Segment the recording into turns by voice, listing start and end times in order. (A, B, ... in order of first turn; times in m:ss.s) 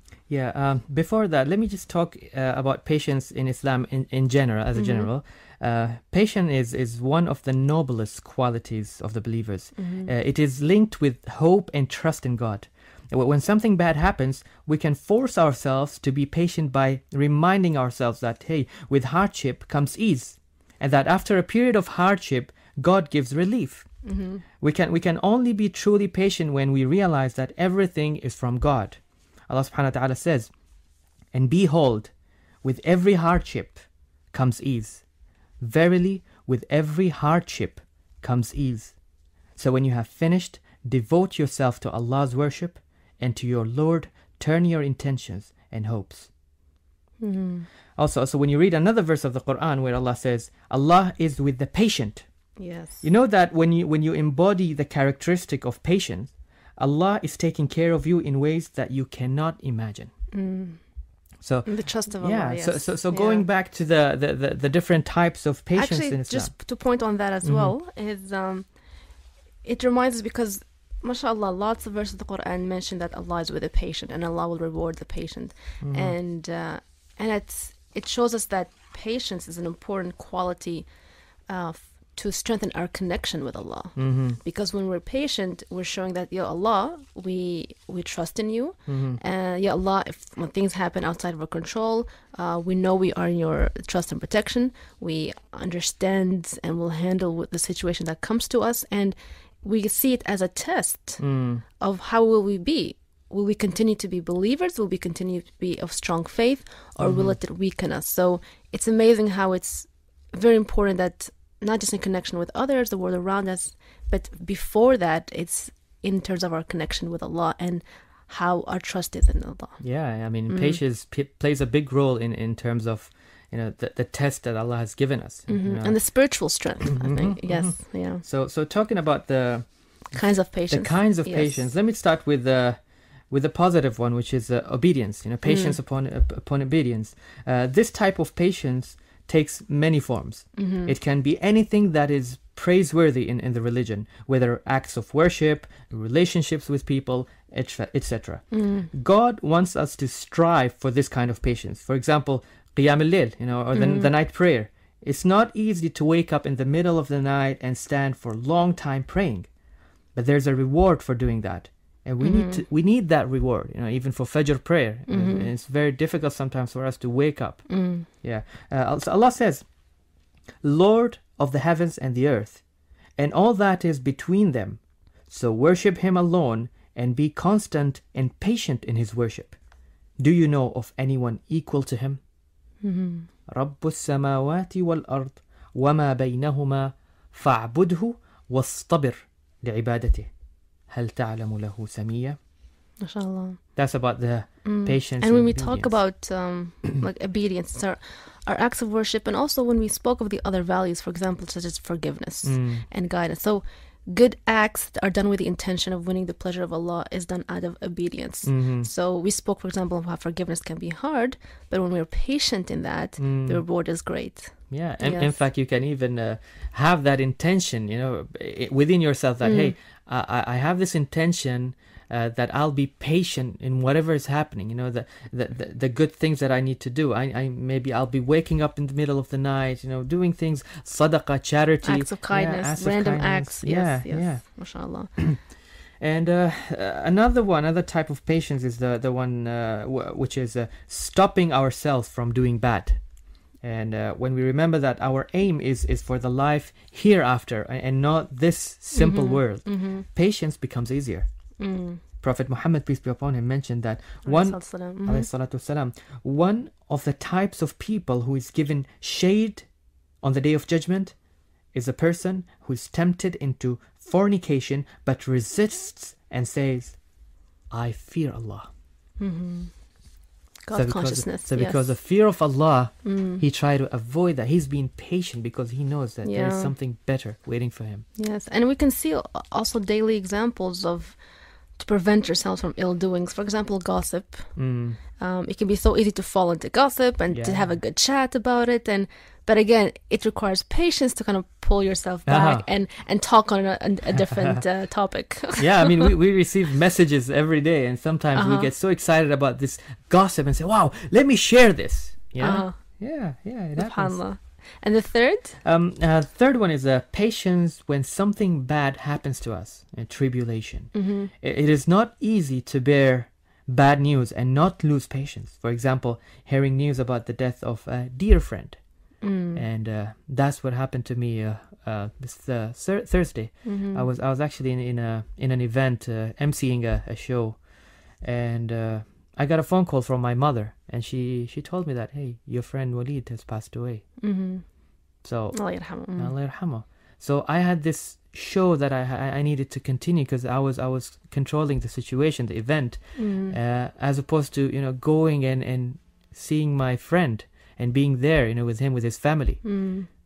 0:00.3-0:23.9 A
0:04.8-0:05.1 B
0:09.8-0:10.1 B
0:24.0-0:24.4 B
0:24.6-0:30.5 A
0:31.3-0:35.0 A
0:35.6-0:39.0 A
0:39.6-0:46.3 A
0:47.2-0:47.7 B
0:48.0-0:52.3 A
0:52.6-0:53.1 B
0:53.0-1:00.1 A
1:00.3-1:00.8 B
1:01.4-1:06.6 A
1:01.6-1:03.5 B
1:05.8-1:08.7 B
1:07.4-1:07.8 A
1:09.6-1:20.9 B
1:15.8-1:16.2 A
1:21.5-1:41.2 B
1:24.0-1:24.4 A
1:28.9-1:29.2 A
1:41.2-1:41.6 A
1:41.8-1:59.8 B
1:47.0-1:47.4 A
1:59.8-2:39.5 A
2:00.5-2:00.8 B
2:05.5-2:08.2 B
2:10.1-2:11.7 B
2:15.5-2:15.8 B
2:20.6-2:20.9 B
2:28.5-2:28.9 B
2:33.7-2:34.1 B
2:40.1-2:49.7 A
2:42.2-2:42.6 B
2:45.1-2:45.5 B
2:47.7-2:48.1 B
2:50.6-2:52.6 A
2:53.2-2:59.6 A
3:00.2-3:02.2 A
3:02.8-3:03.3 B
3:03.5-3:10.3 A
3:10.9-3:12.4 A
3:13.0-3:13.6 B
3:13.8-3:16.0 A
3:14.6-3:35.4 B
3:22.4-3:22.9 A
3:28.4-3:28.9 A
3:33.2-3:33.6 A
3:34.7-3:55.5 A
3:39.4-3:39.8 B
3:51.8-3:55.2 B
3:56.0-4:03.0 A
4:03.6-4:11.3 A
4:08.9-4:10.1 B
4:11.6-4:12.0 B
4:12.2-4:19.7 A
4:14.2-4:15.3 B
4:20.2-4:21.2 A
4:21.7-4:27.0 A
4:27.7-4:28.7 A
4:29.2-4:29.8 B
4:30.6-4:32.0 B
4:30.7-4:38.1 A
4:33.0-4:33.4 B
4:36.2-4:36.7 B
4:38.2-4:41.2 B
4:41.8-4:44.6 B
4:44.6-4:45.0 A
4:45.2-4:56.1 B
4:47.3-4:47.8 A
4:52.3-4:52.7 A
4:54.2-4:54.6 A
4:55.6-5:04.2 A
4:58.4-4:58.7 B
5:02.4-5:02.8 B
5:03.8-5:05.6 B
5:05.6-5:18.8 A
5:10.9-5:11.3 B
5:19.2-5:19.6 B
5:19.5-5:34.1 A
5:23.6-5:24.1 B
5:34.2-5:34.6 B
5:35.2-5:49.6 A
5:35.5-5:36.4 B
5:43.2-5:43.6 B
5:49.6-5:50.1 B